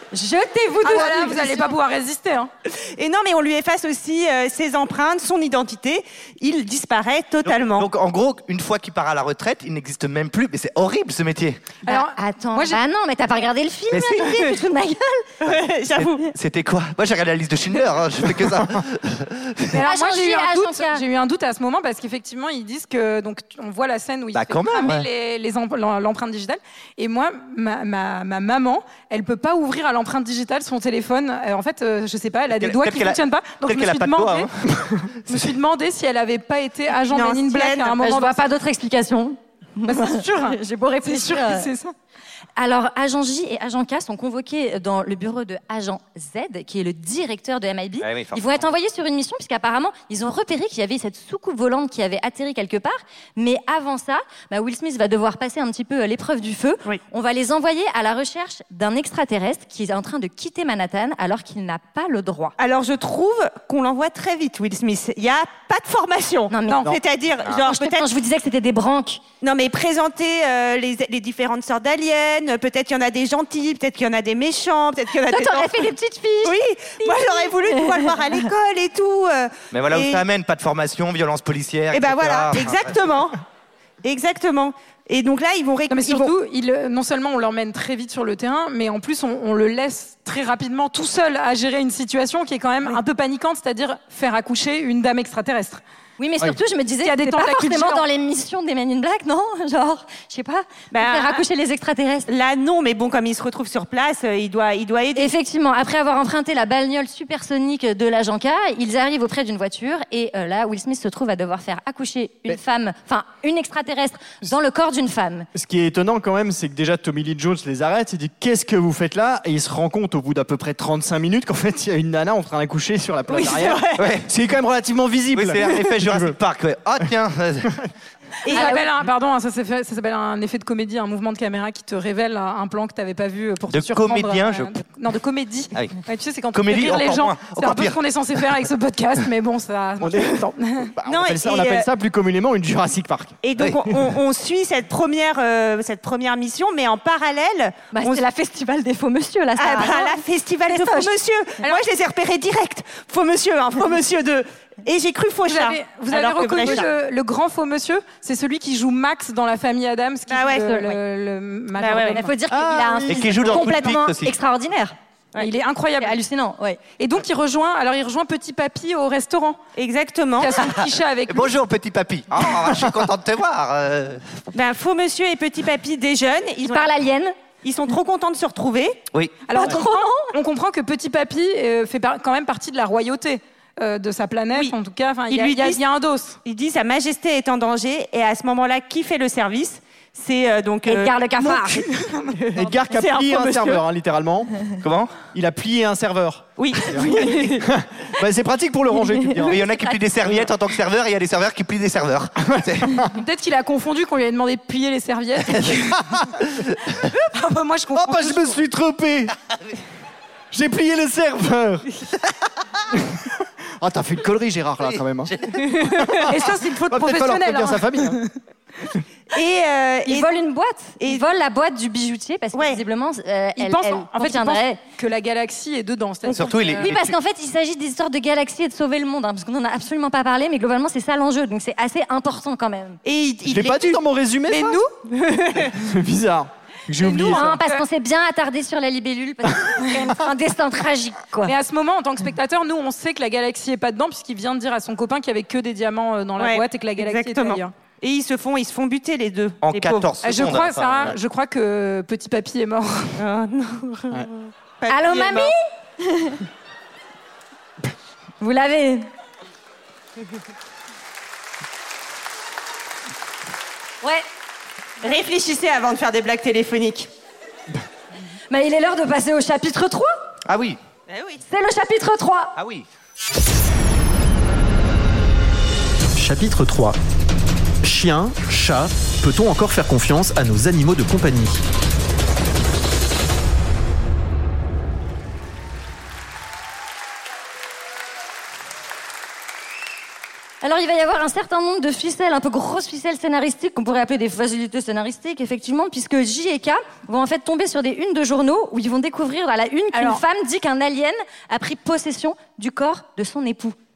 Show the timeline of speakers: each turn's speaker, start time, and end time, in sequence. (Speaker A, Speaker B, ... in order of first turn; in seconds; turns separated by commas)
Speaker A: 0.1-1.7, Speaker B: 0.8-2.5, Speaker C: 2.7-7.9, Speaker D: 7.5-11.8, Speaker B: 11.8-12.8, Speaker A: 11.9-15.3, Speaker D: 13.9-14.2, Speaker C: 15.4-16.3, Speaker D: 15.4-19.8, Speaker B: 19.7-34.5, Speaker A: 19.8-21.0, Speaker D: 24.3-25.1, Speaker D: 32.5-34.5, Speaker D: 35.3-35.5, Speaker B: 35.3-38.4, Speaker C: 37.1-38.2, Speaker A: 38.1-41.7, Speaker B: 39.9-41.9, Speaker A: 42.6-62.5, Speaker D: 48.0-48.7, Speaker C: 62.6-68.1, Speaker A: 66.5-67.0, Speaker A: 67.5-69.2, Speaker C: 69.4-75.9, Speaker A: 75.2-78.5, Speaker C: 76.4-80.2, Speaker D: 79.7-83.0, Speaker C: 81.9-83.4, Speaker C: 84.0-86.3, Speaker B: 85.9-95.8, Speaker A: 96.2-102.3, Speaker B: 97.0-98.0, Speaker C: 100.9-101.4, Speaker C: 102.3-105.3, Speaker A: 105.2-115.5, Speaker E: 115.5-126.4, Speaker C: 123.3-124.1, Speaker D: 124.0-124.3, Speaker D: 125.3-127.7, Speaker C: 128.4-128.8, Speaker B: 128.5-140.9, Speaker A: 128.5-128.9, Speaker D: 133.7-134.8, Speaker D: 136.5-138.0, Speaker E: 140.0-143.4, Speaker C: 141.1-141.9, Speaker C: 143.4-148.2, Speaker A: 147.9-151.1, Speaker C: 149.6-156.9, Speaker B: 155.5-162.3, Speaker C: 160.3-160.8, Speaker A: 160.6-161.0, Speaker C: 161.8-162.3, Speaker A: 162.1-164.9, Speaker E: 162.5-163.5, Speaker D: 163.1-164.4, Speaker B: 165.4-166.2, Speaker A: 166.0-166.8, Speaker B: 166.9-169.6, Speaker C: 169.8-170.6, Speaker B: 170.4-171.5, Speaker D: 170.6-174.2, Speaker C: 174.5-176.9, Speaker A: 176.7-177.3, Speaker C: 177.6-179.0, Speaker D: 179.1-179.4, Speaker B: 179.5-186.4, Speaker A: 179.6-180.3, Speaker C: 185.3-185.8, Speaker C: 186.4-193.8, Speaker A: 190.9-191.8, Speaker B: 191.8-192.3, Speaker E: 192.6-194.5, Speaker D: 194.8-195.2, Speaker E: 195.3-199.6, Speaker C: 196.6-197.7, Speaker D: 199.5-203.0, Speaker E: 202.4-203.1, Speaker B: 203.1-206.0, Speaker D: 205.5-205.8, Speaker B: 207.3-208.6, Speaker E: 207.9-209.3, Speaker E: 210.5-211.9, Speaker E: 213.8-215.3, Speaker D: 214.9-215.5, Speaker C: 215.8-216.2, Speaker E: 216.0-218.2, Speaker B: 216.3-218.3, Speaker C: 219.3-220.3, Speaker A: 220.1-224.8, Speaker C: 222.5-222.8, Speaker B: 223.6-226.9, Speaker D: 226.2-227.2, Speaker A: 226.9-233.0, Speaker C: 233.1-235.8, Speaker E: 233.4-234.8, Speaker E: 235.7-237.6, Speaker A: 237.0-241.5, Speaker B: 237.3-237.8, Speaker B: 241.4-247.7, Speaker C: 246.4-250.1, Speaker D: 249.6-251.2, Speaker B: 250.2-253.2, Speaker C: 253.2-255.5, Speaker A: 254.9-256.4, Speaker A: 258.4-259.1, Speaker C: 265.0-267.1, Speaker A: 268.5-270.1, Speaker D: 270.5-270.8, Speaker C: 271.1-271.4, Speaker A: 271.4-272.6, Speaker D: 272.6-272.9, Speaker F: 276.1-277.0, Speaker F: 277.8-281.6, Speaker A: 290.6-303.8, Speaker B: 299.9-300.2